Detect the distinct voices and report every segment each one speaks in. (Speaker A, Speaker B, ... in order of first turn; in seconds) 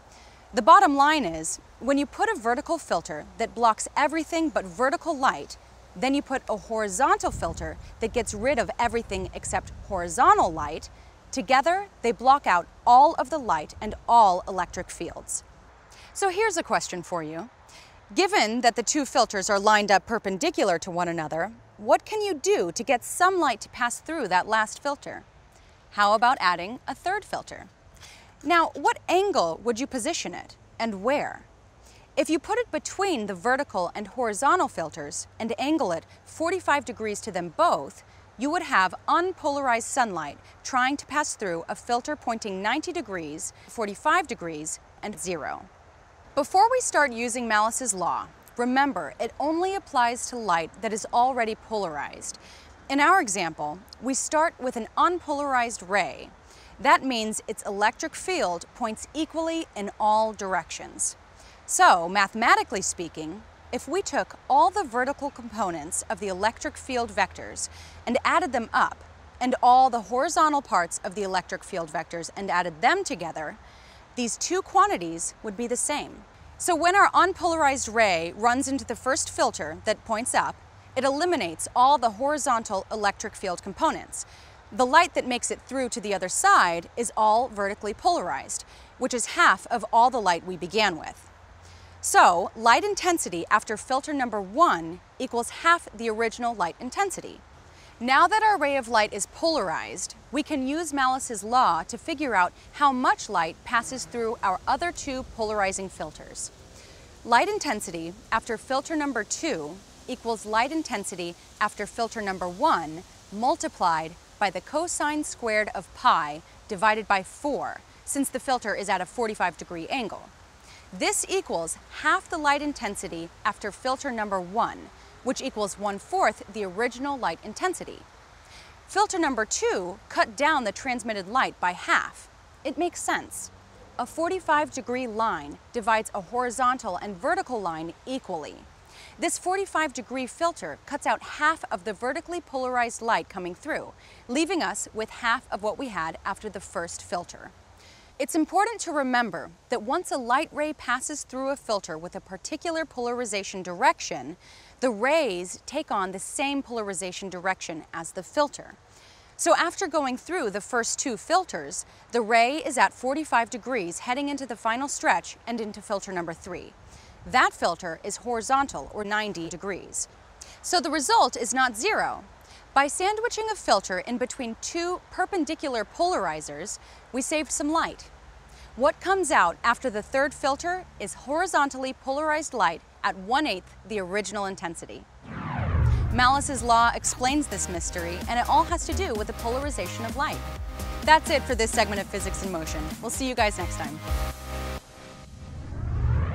Speaker A: 0.5-15.4, 16.1-17.5, 18.1-25.2, 25.9-27.7, 28.4-31.5, 32.1-45.7, 46.3-73.6, 74.2-91.3, 92.0-97.4, 98.0-106.5, 107.2-120.3, 120.9-128.1, 128.9-138.7, 139.2-147.5, 148.2-158.8, 159.4-170.1, 170.6-178.1, 178.7-185.1, 186.1-190.5, 191.0-194.0